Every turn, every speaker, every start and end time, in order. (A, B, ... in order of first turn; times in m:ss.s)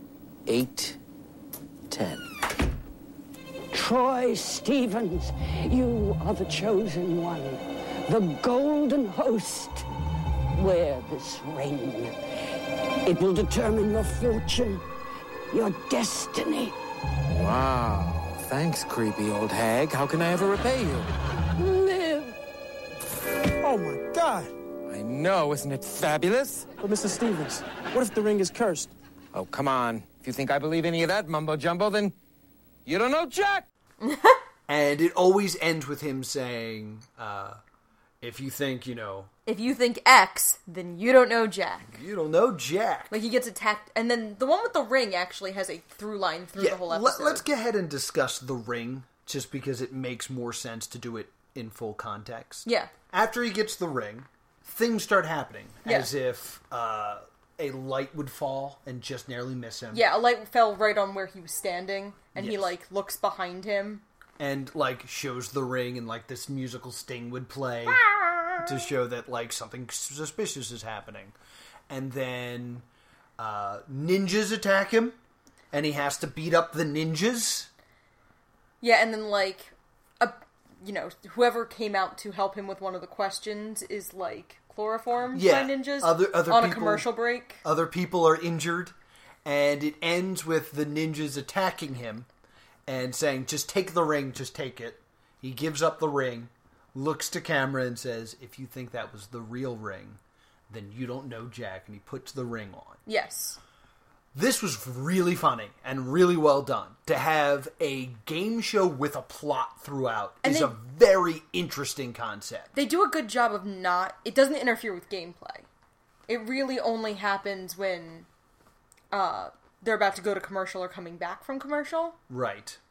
0:00.4-0:01.0 A
0:01.9-0:02.3 A
0:03.7-0:09.8 B
0:10.5-0:12.2 B
0:13.0-0:14.8 B
0:15.5-0:16.8 B
0:17.3-0:21.1 A
0:21.6-0:22.4 B
0:23.6-0:24.5 C
0:24.8-0:26.7 A
0:26.8-0:28.9 C
0:29.3-0:32.1 A
0:32.8-0:33.6 A
0:34.0-0:34.4 D
0:34.7-0:37.6 E
0:38.2-0:39.3 E
0:39.5-0:42.0 D
0:41.9-0:43.2 E
0:43.1-0:47.4 D
0:46.6-1:00.0 E
0:52.6-0:52.9 D
0:55.8-0:56.1 D
0:59.9-1:04.0 D
1:02.3-1:02.7 E
1:04.4-1:11.3 E
1:08.0-1:08.6 D
1:11.9-1:12.8 E
1:13.4-1:15.2 E
1:15.7-1:17.7 E
1:18.8-1:27.6 D
1:25.3-1:27.1 E
1:27.6-1:32.3 E
1:32.9-1:43.0 E
1:43.0-1:43.6 D
1:44.3-1:52.7 E
1:50.4-1:50.8 D
1:52.7-1:55.7 D
1:56.3-1:58.3 D
1:59.1-2:02.2 D
2:02.3-2:02.8 E